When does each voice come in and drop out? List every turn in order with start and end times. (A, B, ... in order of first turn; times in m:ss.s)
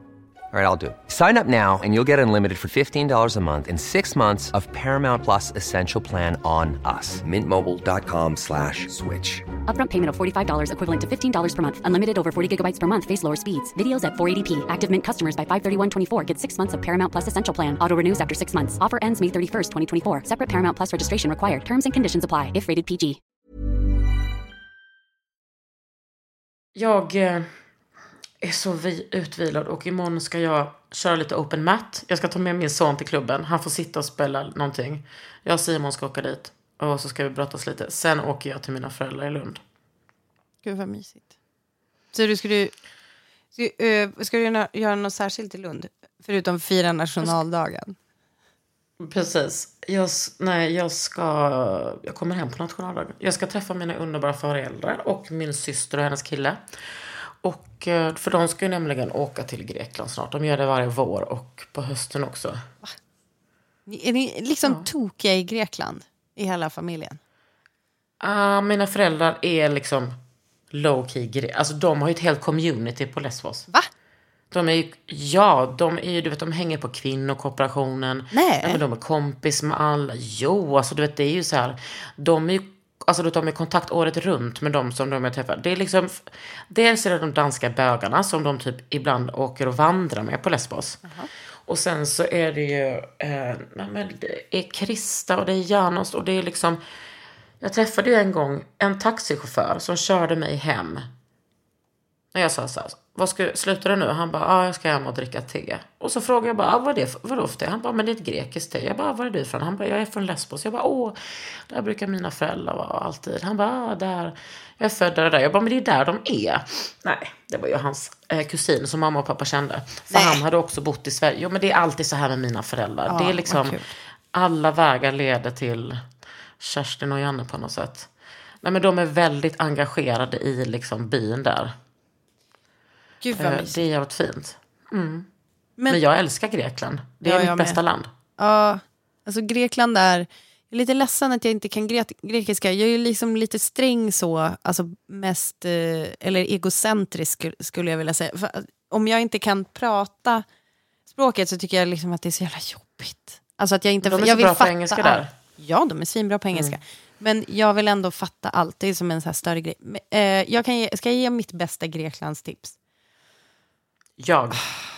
0:00.5-0:09.5 A
0:09.7-0:23.2 B
0:26.8-0:27.5 C
0:28.4-0:39.6 C
0:40.6-0:41.3 D
0:42.1-0:42.7 D
0:43.6-0:48.0 D
0:49.0-0:56.6 C
0:57.4-1:02.6 C
1:03.9-1:07.2 D
1:08.2-1:10.2 C
1:10.7-1:13.7 C
1:14.5-1:31.0 C
1:18.3-1:18.8 D
1:31.7-1:36.8 C
1:37.6-1:41.1 C
1:42.3-2:03.8 C
2:00.1-2:00.4 D
2:03.1-2:03.9 D
2:04.3-2:06.0 C
2:06.6-2:08.1 C
2:08.6-2:11.7 C
2:13.2-2:13.8 D
2:13.3-2:15.3 C
2:15.9-2:18.1 C
2:17.2-2:17.8 D
2:18.4-2:30.4 D
2:31.1-2:42.8 D
2:34.0-2:35.3 C
2:36.5-2:36.8 C
2:44.2-2:44.6 C